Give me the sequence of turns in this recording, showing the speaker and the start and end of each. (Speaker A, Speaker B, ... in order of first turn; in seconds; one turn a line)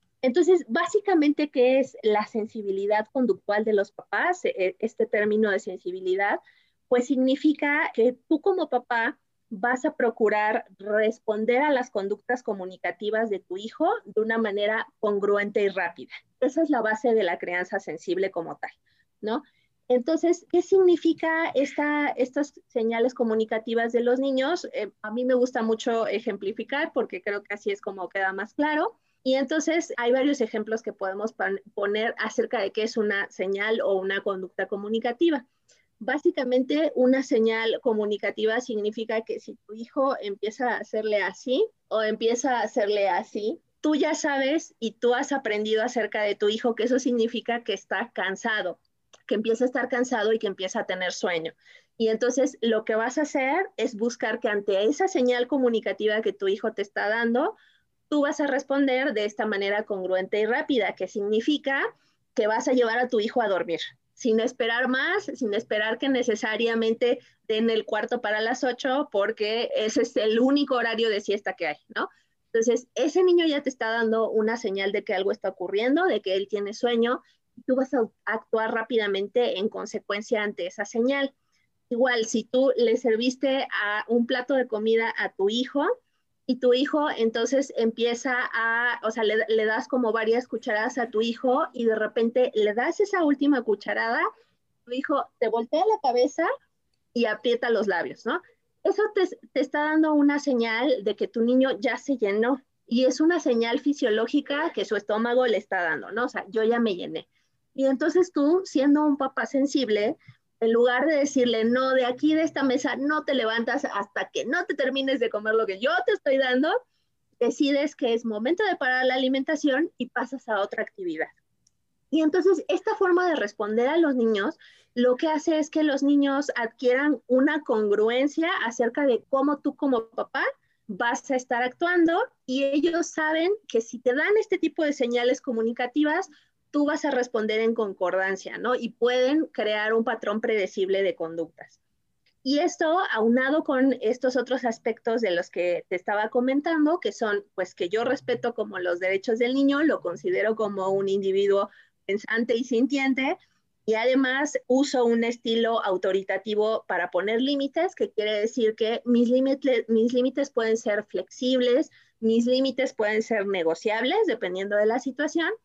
Speaker A: 0.2-35.5
Speaker A: 36.0-57.5
Speaker A: 58.1-81.3
Speaker A: 81.9-85.9
Speaker A: 86.5-94.2
Speaker A: 94.9-96.5
Speaker A: 97.1-116.8
Speaker A: 117.4-121.3
Speaker A: 122.1-141.8
Speaker A: 142.4-165.5